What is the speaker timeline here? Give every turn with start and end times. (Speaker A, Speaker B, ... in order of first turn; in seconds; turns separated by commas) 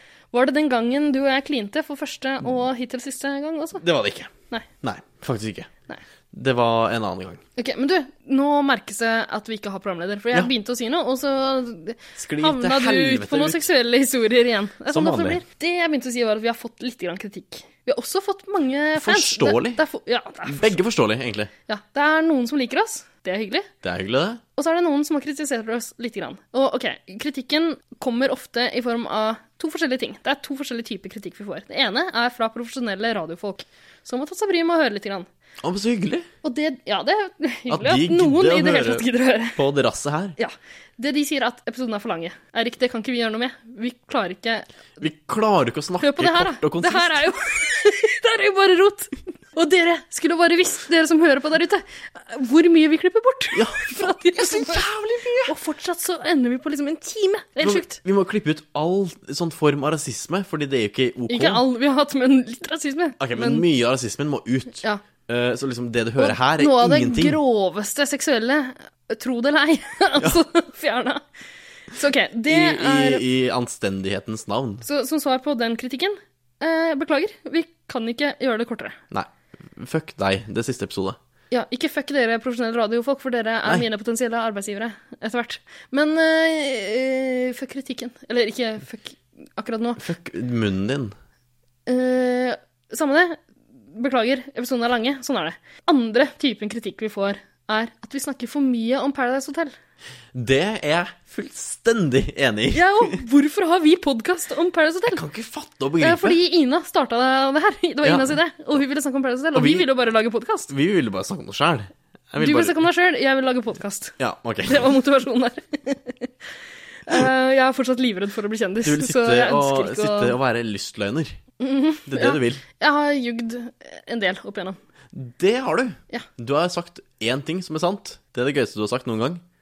Speaker A: 0.3-3.8, Speaker B: 3.8-5.7, Speaker B: 6.3-7.4, Speaker A: 7.6-20.8, Speaker B: 12.2-13.7, Speaker B: 14.9-15.4, Speaker B: 18.9-19.8, Speaker B: 20.5-21.5, Speaker A: 21.7-23.7, Speaker B: 23.8-24.4, Speaker A: 24.6-35.3, Speaker B: 35.6-36.3, Speaker A: 36.4-39.6, Speaker B: 37.7-40.4, Speaker A: 40.4-44.7, Speaker B: 45.0-47.3, Speaker A: 46.0-54.8, Speaker B: 53.5-55.5, Speaker A: 55.5-58.0, Speaker B: 57.6-61.6, Speaker A: 61.3-63.6, Speaker B: 63.2-67.4, Speaker A: 66.2-71.2, Speaker A: 72.0-73.2, Speaker B: 72.5-74.8, Speaker A: 74.8-79.0, Speaker B: 79.1-81.2, Speaker A: 81.5-90.0, Speaker B: 90.0-91.2, Speaker A: 91.9-93.4, Speaker A: 93.9-99.7, Speaker B: 100.3-103.2, Speaker A: 102.7-105.2, Speaker B: 105.1-106.4, Speaker A: 106.0-110.7, Speaker B: 108.0-108.4, Speaker B: 109.5-109.9, Speaker B: 110.7-112.8, Speaker A: 112.4-116.3, Speaker B: 114.2-114.9, Speaker A: 117.1-120.4, Speaker B: 118.8-121.4, Speaker A: 121.6-124.8, Speaker B: 122.1-122.6, Speaker B: 125.1-129.4